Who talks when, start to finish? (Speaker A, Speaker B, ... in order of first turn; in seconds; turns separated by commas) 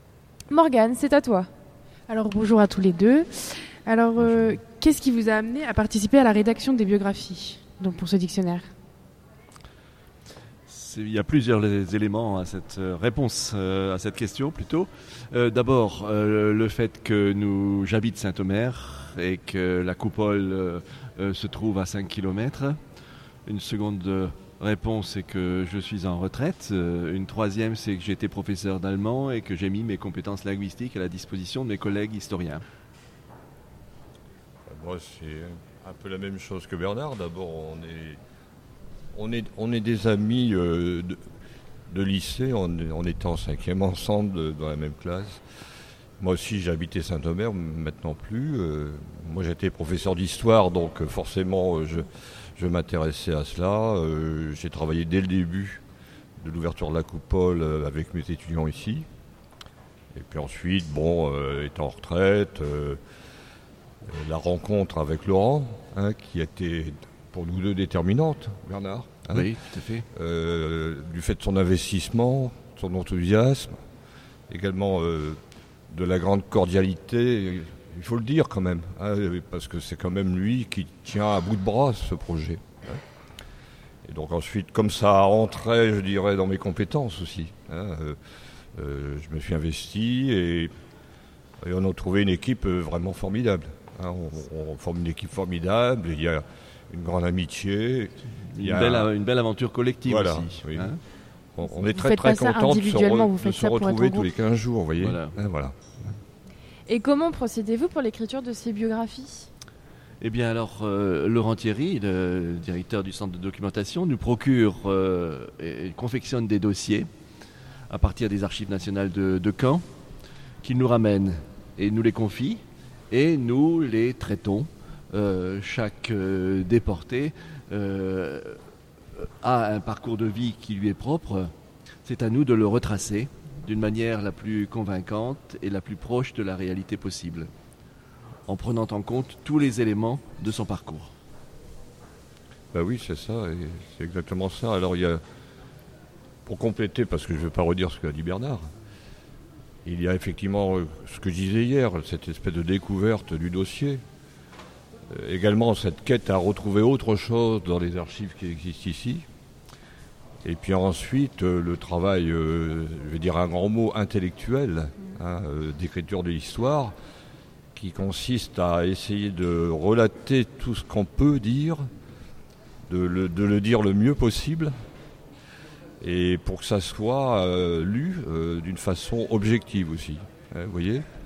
Speaker A: 0.5-1.5, Speaker B: 2.1-3.3, Speaker B: 3.9-8.7, Speaker C: 4.2-4.6, Speaker C: 10.7-22.8, Speaker C: 23.5-32.6, Speaker D: 34.7-38.2, Speaker D: 39.1-41.2, Speaker D: 41.9-45.4, Speaker D: 46.2-55.8, Speaker D: 56.4-59.1, Speaker D: 60.1-63.0, Speaker D: 64.1-69.5, Speaker C: 69.3-70.1, Speaker D: 70.1-73.8, Speaker D: 74.5-75.4, Speaker D: 75.9-83.0, Speaker D: 84.0-88.2, Speaker D: 88.8-90.7, Speaker D: 91.6-99.1, Speaker C: 98.4-101.0, Speaker D: 100.1-100.9, Speaker D: 101.5-105.8, Speaker B: 102.3-104.2, Speaker C: 105.0-105.4, Speaker A: 106.9-109.5, Speaker C: 110.2-117.1, Speaker C: 117.9-119.9, Speaker C: 120.6-128.6, Speaker C: 129.2-131.5, Speaker C: 132.0-137.5, Speaker C: 138.5-141.1, Speaker D: 142.7-145.2, Speaker D: 146.4-148.6, Speaker D: 149.8-154.0, Speaker D: 155.1-159.2, Speaker D: 160.4-166.9, Speaker D: 167.7-171.9, Speaker D: 172.9-174.7, Speaker D: 176.0-181.1